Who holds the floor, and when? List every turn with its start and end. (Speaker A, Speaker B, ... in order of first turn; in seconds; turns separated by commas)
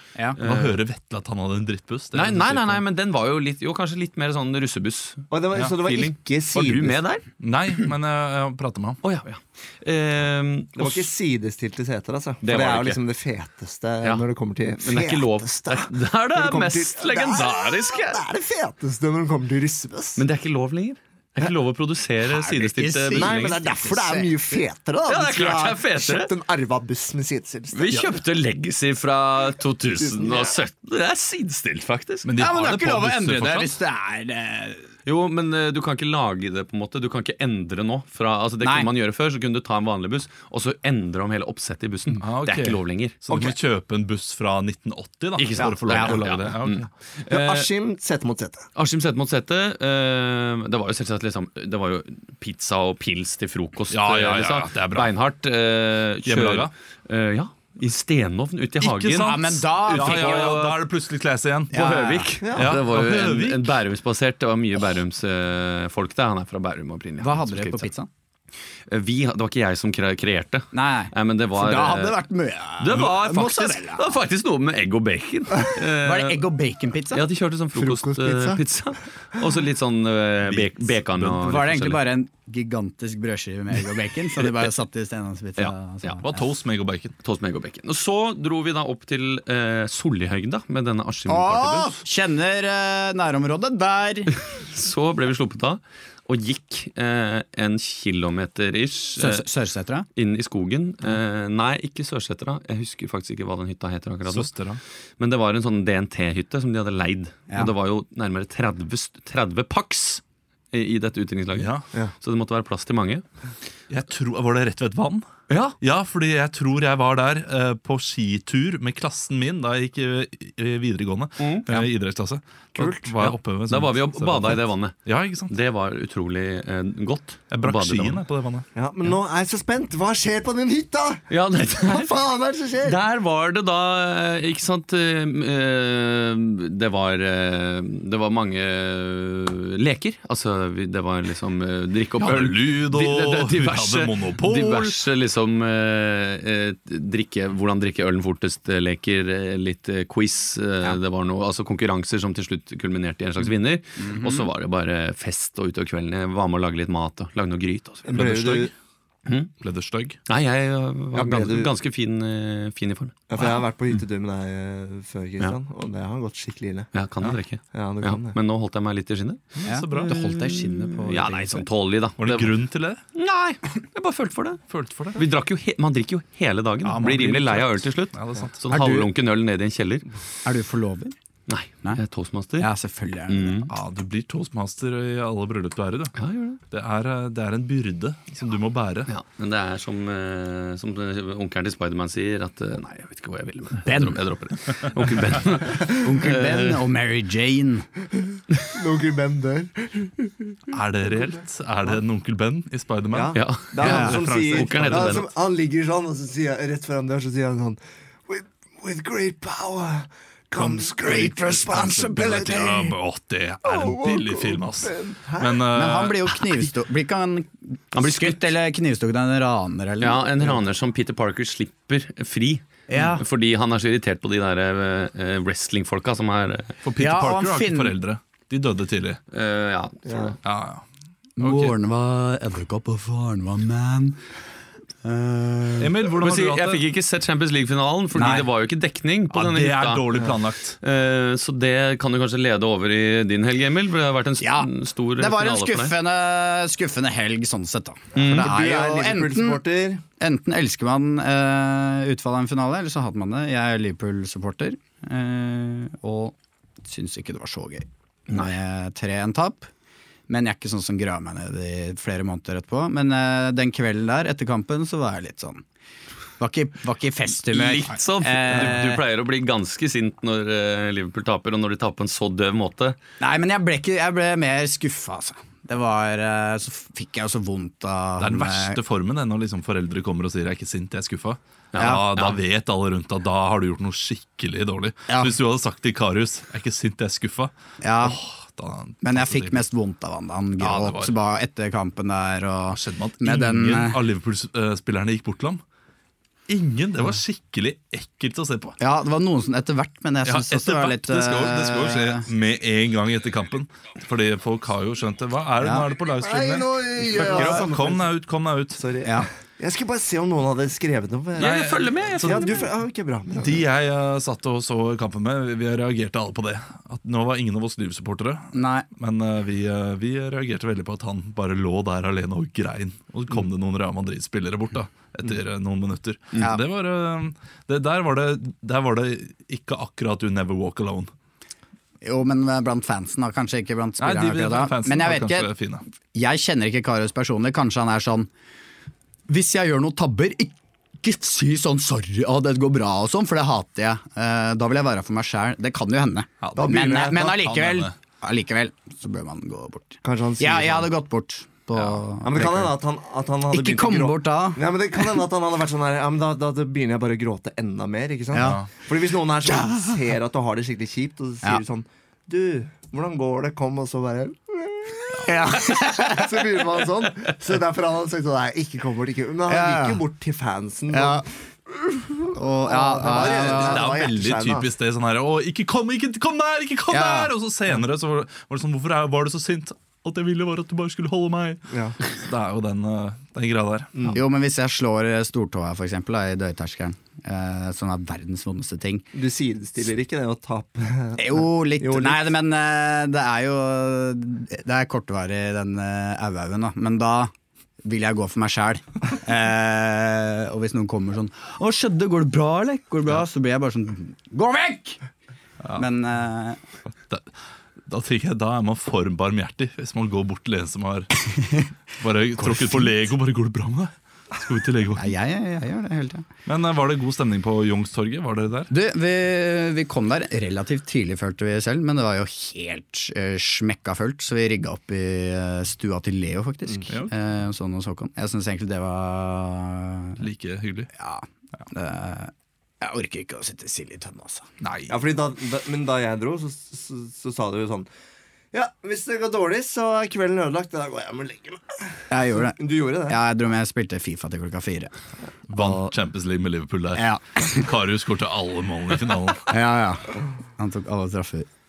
Speaker A: 0.3-0.8, Speaker B: 0.4-2.8, Speaker A: 2.1-7.2, Speaker C: 5.3-7.0, Speaker B: 7.4-9.0, Speaker A: 9.0-11.0, Speaker C: 10.8-20.2, Speaker A: 12.4-13.0, Speaker A: 14.8-18.2, Speaker A: 20.2-23.6, Speaker D: 22.2-24.6, Speaker C: 23.1-28.1, Speaker A: 25.1-26.3, Speaker A: 27.7-32.3, Speaker C: 30.0-30.6, Speaker B: 32.2-33.8, Speaker D: 32.4-34.9, Speaker A: 35.1-43.2, Speaker D: 38.6-38.9, Speaker B: 42.2-46.9, Speaker A: 45.4-47.7, Speaker D: 45.9-46.1, Speaker C: 47.3-48.7, Speaker A: 48.8-60.8, Speaker B: 53.9-55.1, Speaker B: 56.2-56.7, Speaker B: 58.8-62.0, Speaker D: 59.2-60.6, Speaker D: 61.7-62.3, Speaker A: 61.7-67.9, Speaker C: 62.4-62.8, Speaker B: 62.6-63.8, Speaker D: 67.2-68.1, Speaker A: 68.9-72.2, Speaker D: 70.7-74.2, Speaker A: 72.8-76.5, Speaker D: 76.0-77.2, Speaker A: 77.1-82.0, Speaker C: 77.7-78.6, Speaker B: 80.5-80.9, Speaker D: 81.2-86.4, Speaker A: 85.6-86.2, Speaker B: 86.2-87.1, Speaker A: 87.2-92.0, Speaker D: 91.3-94.3, Speaker A: 94.6-99.5, Speaker D: 99.2-100.1, Speaker A: 100.2-104.5, Speaker B: 104.3-104.8, Speaker A: 105.2-113.2, Speaker D: 107.5-107.7, Speaker B: 111.5-111.9, Speaker B: 113.9-115.3, Speaker A: 115.5-115.8, Speaker B: 115.8-125.5, Speaker A: 121.4-121.8, Speaker A: 122.8-125.0, Speaker A: 125.5-128.2, Speaker B: 127.5-128.7, Speaker C: 128.8-131.2, Speaker A: 131.3-132.1, Speaker C: 131.8-133.0, Speaker A: 132.8-158.2, Speaker B: 142.2-145.0, Speaker D: 154.0-154.5, Speaker C: 158.1-158.7, Speaker B: 158.1-158.7, Speaker A: 159.3-159.5, Speaker B: 159.6-160.2, Speaker A: 160.3-163.5, Speaker C: 161.1-161.7, Speaker C: 163.3-166.9, Speaker A: 166.9-172.6, Speaker C: 167.7-168.4, Speaker B: 169.6-170.2, Speaker D: 169.7-171.7, Speaker B: 172.2-173.0, Speaker A: 173.1-174.6, Speaker B: 174.7-175.2, Speaker A: 175.1-180.0, Speaker B: 176.8-178.6, Speaker D: 178.7-179.1, Speaker D: 180.4-181.2, Speaker A: 181.5-182.7, Speaker D: 182.6-183.7, Speaker A: 183.3-183.7, Speaker B: 183.7-186.2, Speaker A: 186.2-186.6, Speaker B: 186.7-189.1, Speaker A: 189.1-196.8, Speaker D: 193.8-194.3, Speaker D: 196.0-197.9, Speaker C: 198.7-200.6, Speaker B: 200.7-205.2, Speaker C: 203.1-213.0, Speaker A: 203.3-205.3, Speaker D: 203.8-204.1, Speaker D: 210.6-212.3, Speaker B: 211.7-216.5, Speaker C: 213.6-215.7, Speaker D: 215.7-220.6, Speaker A: 217.9-218.5, Speaker A: 220.0-226.8, Speaker D: 222.9-223.2, Speaker B: 226.8-229.2, Speaker D: 227.0-228.0, Speaker A: 229.3-230.4, Speaker C: 230.1-230.4, Speaker B: 230.4-230.8, Speaker D: 231.4-234.2, Speaker B: 231.4-231.8, Speaker D: 235.0-235.9, Speaker B: 235.8-236.8, Speaker A: 236.0-246.0, Speaker D: 238.2-238.5, Speaker B: 239.3-240.8, Speaker D: 244.4-249.6, Speaker A: 248.2-248.6, Speaker C: 248.2-250.0, Speaker D: 250.2-259.7, Speaker A: 258.3-258.6, Speaker D: 260.3-265.6, Speaker D: 266.4-269.0, Speaker A: 267.5-273.0, Speaker D: 273.2-278.8, Speaker B: 278.2-289.6, Speaker A: 281.7-282.4, Speaker D: 285.1-285.4, Speaker D: 287.8-288.2, Speaker D: 289.0-294.0, Speaker B: 290.6-291.1, Speaker B: 292.7-295.6, Speaker B: 296.5-298.8, Speaker D: 298.8-302.3, Speaker B: 300.3-308.8, Speaker D: 305.6-305.9, Speaker C: 306.2-308.1, Speaker A: 307.2-307.6, Speaker C: 308.8-311.6, Speaker B: 311.4-312.5, Speaker A: 311.4-312.7, Speaker C: 312.2-313.7, Speaker B: 313.4-331.1, Speaker D: 318.5-318.9, Speaker D: 332.0-335.5, Speaker B: 334.0-335.8, Speaker D: 336.1-338.3, Speaker D: 339.3-352.8, Speaker B: 346.4-347.9, Speaker C: 346.6-347.4, Speaker C: 350.0-350.9, Speaker B: 351.8-352.0, Speaker C: 352.2-374.7, Speaker D: 353.5-355.2, Speaker D: 358.3-358.6, Speaker B: 358.4-358.7, Speaker D: 359.5-359.9, Speaker D: 365.2-366.5, Speaker D: 369.5-370.0, Speaker D: 370.9-371.2, Speaker D: 372.3-374.1, Speaker B: 373.1-383.9, Speaker D: 376.9-377.3, Speaker C: 381.7-382.0, Speaker C: 384.0-384.2, Speaker D: 384.1-389.1, Speaker C: 389.1-392.3, Speaker D: 391.2-397.3, Speaker D: 397.8-405.0, Speaker B: 405.6-405.9, Speaker D: 405.8-406.6, Speaker B: 407.9-411.2, Speaker B: 412.0-415.1, Speaker D: 412.4-412.9, Speaker D: 415.0-416.3, Speaker B: 416.5-418.7, Speaker D: 418.7-430.2, Speaker B: 430.2-430.9, Speaker D: 431.0-434.5, Speaker B: 434.6-435.0, Speaker C: 434.9-437.9, Speaker C: 438.5-443.2, Speaker D: 442.1-444.9, Speaker B: 445.5-449.5, Speaker D: 445.6-445.9, Speaker D: 446.9-447.6, Speaker D: 449.5-451.5